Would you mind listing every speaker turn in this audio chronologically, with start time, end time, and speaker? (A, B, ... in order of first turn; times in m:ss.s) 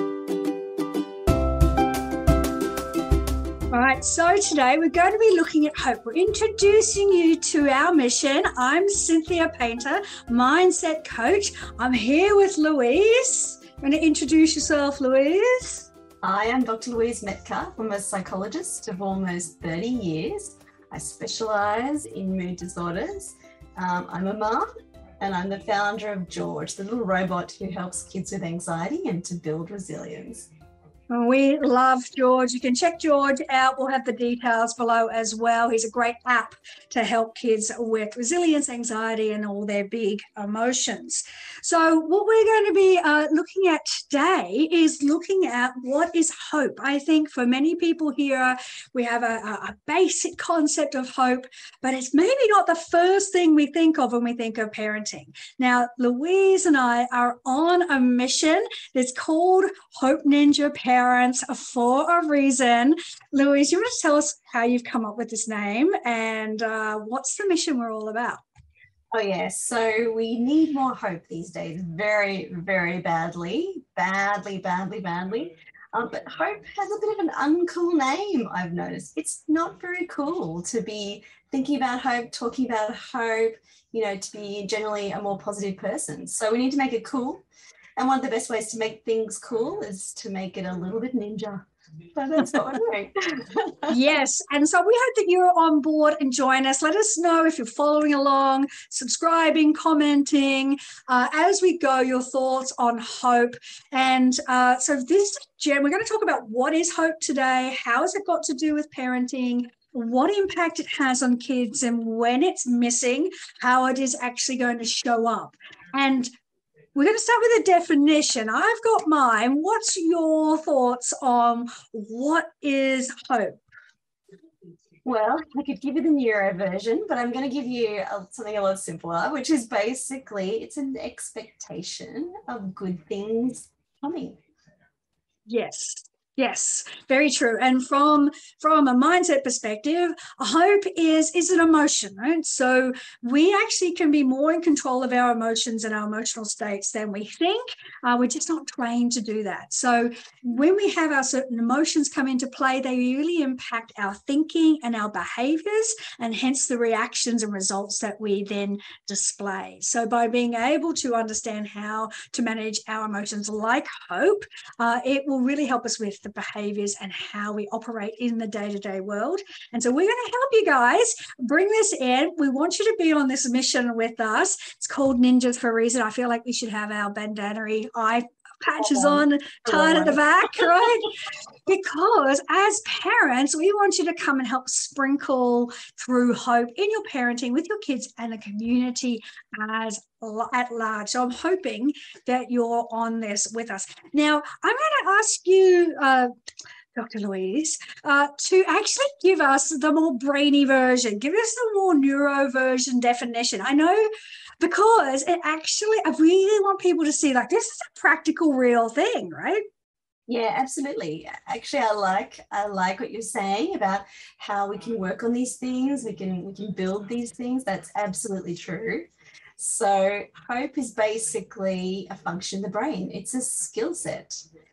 0:03.7-0:15.9 A
0:16.2-0:24.7 B
0:25.2-0:30.5 B
0:31.1-1:08.4 A
1:09.1-1:27.4 B
1:28.0-1:34.0 B
1:33.9-1:56.3 A
1:57.0-2:03.6 A
2:05.0-2:14.4 B
2:15.5-3:16.3 A
2:58.8-3:00.9 B
3:17.0-3:29.6 A
3:30.3-3:39.1 B
3:39.6-3:44.5 B